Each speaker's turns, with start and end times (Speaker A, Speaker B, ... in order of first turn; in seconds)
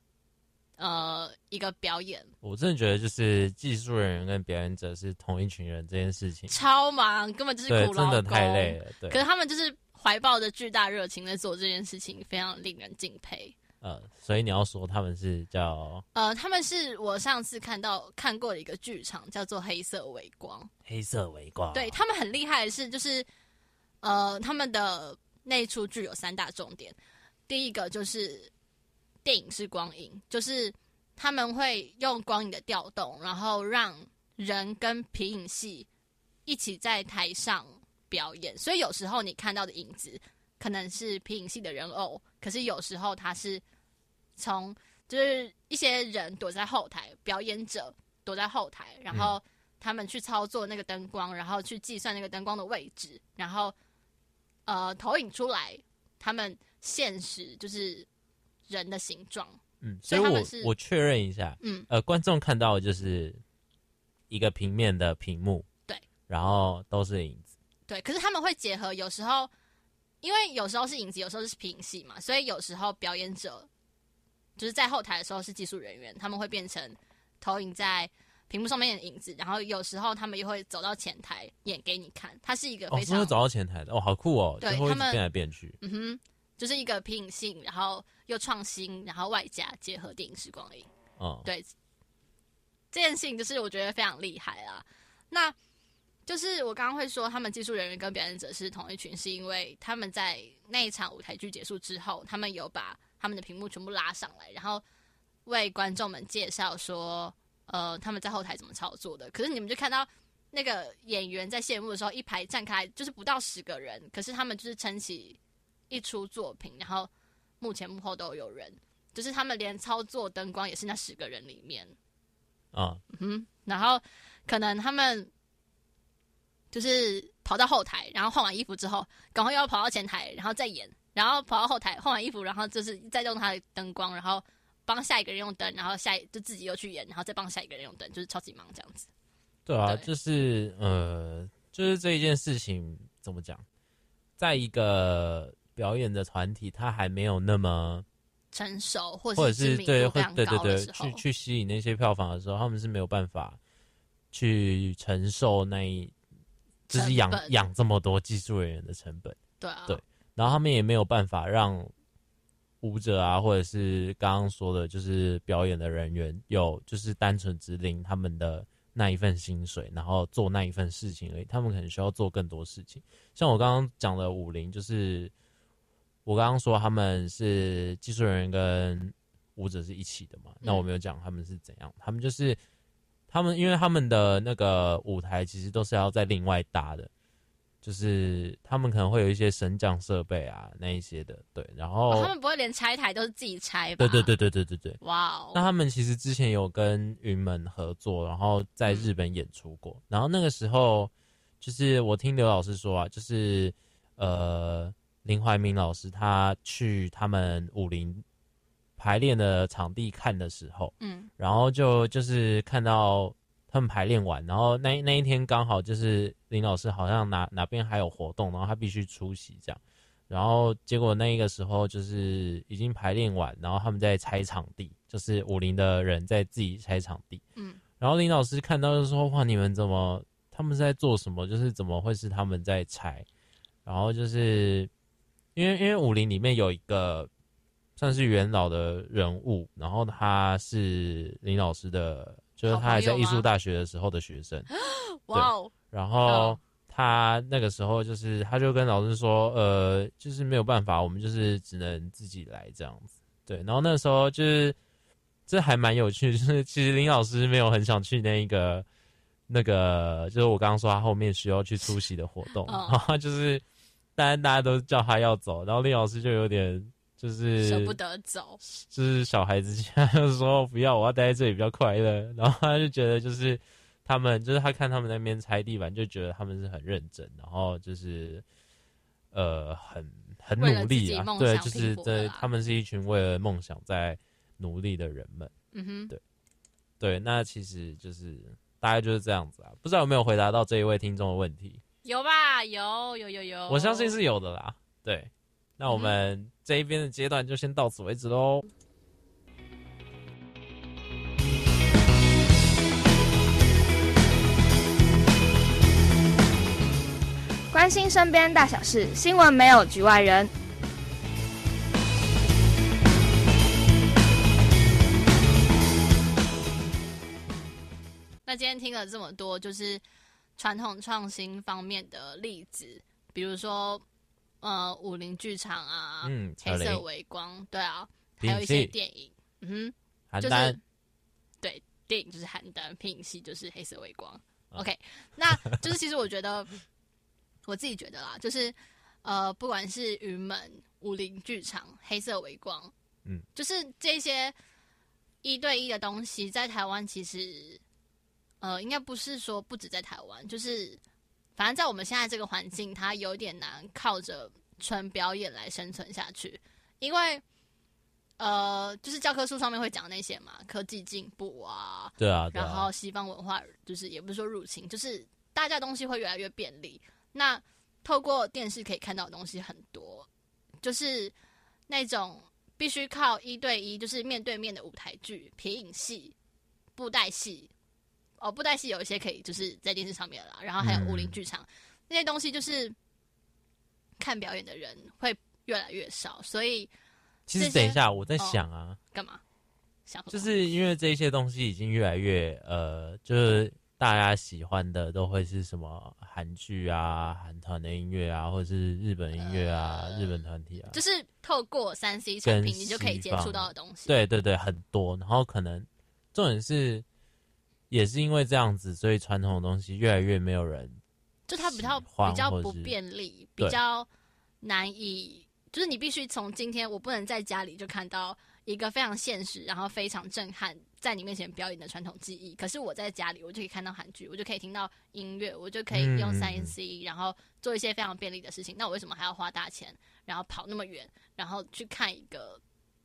Speaker A: 0.8-2.3, 6.5-13.5, 16.1-20.7, 21.7-23.3, 24.0-27.0, 27.5-28.5, 29.2-35.9, 36.5-43.6, 44.4-53.7, 54.6-58.1, 58.7-60.7, 61.6-61.9, 67.9-69.5, 70.2-73.7, 74.6-83.3, 84.6-85.2, 85.8-90.9, 91.4-91.7, 92.9-95.5, 96.2-104.8, 105.5-115.4, 115.9-117.1, 117.6-121.9, 123.1-125.3, 126.7-139.1, 139.8-140.1, 148.5-151.2, 156.9-157.6, 159.6-160.0, 180.6-180.9, 192.1-194.3, 195.0-195.7, 211.0-211.3, 227.6-227.8, 242.6-243.5, 244.7-245.7, 246.2-246.6, 262.7-263.0, 267.6-268.6, 280.6-282.5, 285.7-286.1, 292.0-294.1, 295.9-296.2, 318.4-320.0, 320.6-324.0, 324.6-330.8, 331.6-336.7, 337.6-342.9, 343.5-344.5, 345.4-347.8, 348.6-351.0, 351.6-357.4, 358.4-370.3, 370.8-371.3, 371.9-376.3, 376.9-377.7, 378.4-382.9, 384.2-386.9, 387.6-389.4, 390.1-390.5, 399.4-400.4, 400.9-404.1, 411.5-414.1, 414.6-432.6
Speaker B: 2.4-6.5, 7.7-9.2, 13.8-16.0, 20.8-22.0, 59.8-63.4, 64.3-65.7, 66.3-67.5, 82.9-85.8, 91.2-91.5, 122.7-123.0, 139.7-143.6, 144.4-148.1, 149.3-153.6, 154.3-156.1, 156.9-161.9, 162.8-175.3, 176.2-182.6, 183.3-187.1, 187.8-192.3, 194.0-195.0, 195.5-208.2, 209.0-227.4, 228.0-233.2, 233.8-234.9, 235.5-237.3, 238.0-244.7, 245.3-254.8, 255.5-258.9, 259.5-263.6, 264.1-268.0, 268.6-278.4, 279.3-285.5, 287.0-291.8, 293.7-298.6, 326.2-327.0, 328.4-328.9, 330.3-330.8, 335.5-335.8, 362.2-362.9, 380.8-381.4, 387.5-389.0, 390.3-401.0, 402.4-407.0, 407.9-411.0, 411.6-412.9, 425.9-426.7
Speaker C: 307.7-310.5